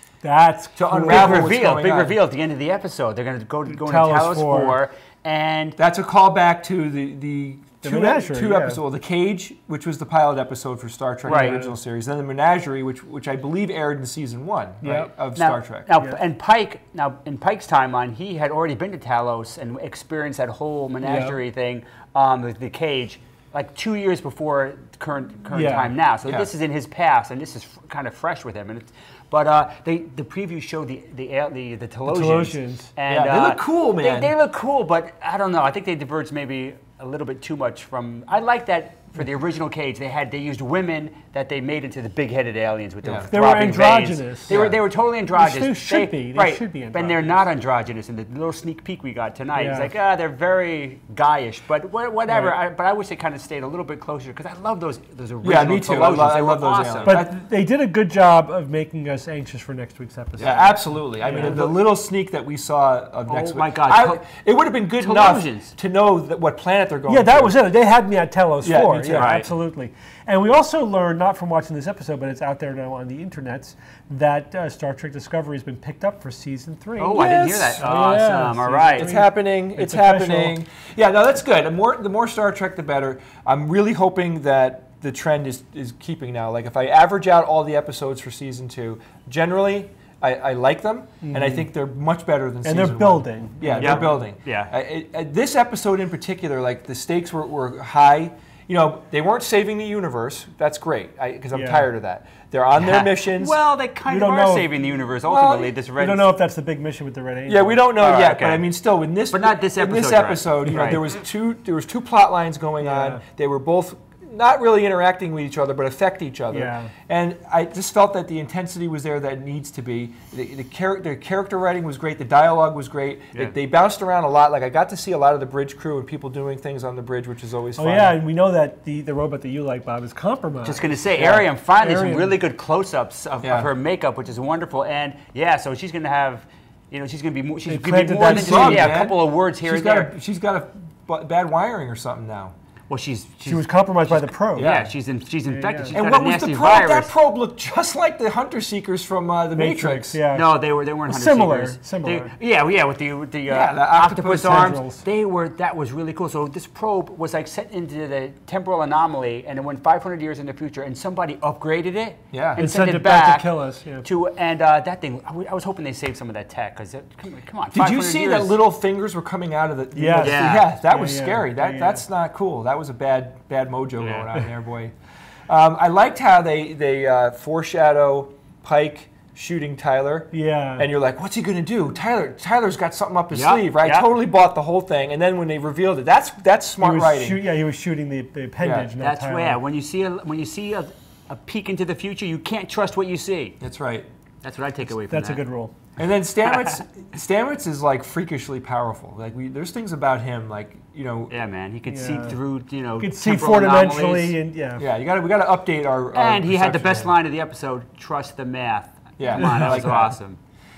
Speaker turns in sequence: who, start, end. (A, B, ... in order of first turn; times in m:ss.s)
0:00.2-0:01.6 A
0:00.8-0:02.2 B
0:01.1-0:05.8 C
0:03.7-0:04.8 A
0:05.8-0:15.9 B
0:07.8-0:08.8 A
0:11.2-0:11.8 A
0:11.3-0:11.6 C
0:14.8-0:15.2 A
0:15.4-0:57.2 C
0:21.0-0:21.4 A
0:25.5-0:26.0 A
0:26.2-0:26.5 B
0:32.0-0:32.9 A
0:33.1-0:34.4 B
0:43.0-0:43.3 B
0:43.3-0:44.6 A
0:44.5-0:44.8 B
0:45.3-0:47.5 A
0:49.5-0:50.0 A
0:52.3-0:52.6 A
0:55.4-0:57.4 B
0:57.0-1:01.8 A
1:00.4-1:07.6 B
1:01.4-1:01.6 C
1:03.3-1:04.2 C
1:05.0-1:05.7 C
1:07.1-1:20.6 A
1:08.6-1:09.4 B
1:09.1-1:09.5 C
1:17.0-1:19.1 C
1:17.2-1:18.0 B
1:19.0-1:43.6 B
1:31.2-1:31.7 A
1:32.6-1:34.3 A
1:33.8-1:34.7 C
1:41.5-1:41.9 A
1:42.8-1:46.3 C
1:44.1-1:44.8 A
1:45.3-1:45.8 B
1:46.0-1:47.9 A
1:47.5-2:08.2 B
1:48.0-1:48.7 C
1:49.3-1:51.1 C
1:52.8-1:53.2 A
1:56.5-1:56.9 A
2:07.8-2:12.4 A
2:10.6-2:20.1 C
2:13.4-2:13.7 B
2:17.6-2:19.0 A
2:18.3-2:22.5 B
2:22.9-2:27.1 C
2:23.4-2:24.7 A
2:24.6-2:25.0 B
2:25.4-2:26.0 A
2:25.9-2:30.2 B
2:29.5-2:32.4 A
2:30.3-2:43.5 C
2:33.5-2:34.8 B
2:34.5-2:35.1 A
2:42.3-2:42.7 B
2:42.6-2:44.1 A
2:44.0-2:48.6 C
2:47.7-2:54.9 B
2:49.9-2:52.0 A
2:50.2-2:50.7 C
2:54.0-2:54.3 C
2:55.5-3:07.5 B
3:00.3-3:00.9 A
3:03.3-3:04.1 C
3:06.8-3:09.6 A
3:08.6-3:08.9 B
3:09.0-3:13.6 C
3:13.6-3:14.1 B
3:14.4-3:15.4 C
3:15.1-3:15.8 A
3:16.0-3:21.4 B
3:16.4-3:16.8 C
3:21.3-3:24.4 C
3:21.9-3:22.4 A
3:23.0-3:24.9 A
3:24.8-3:27.2 B
3:26.1-3:30.4 C
3:29.2-3:30.1 B
3:29.4-3:30.0 A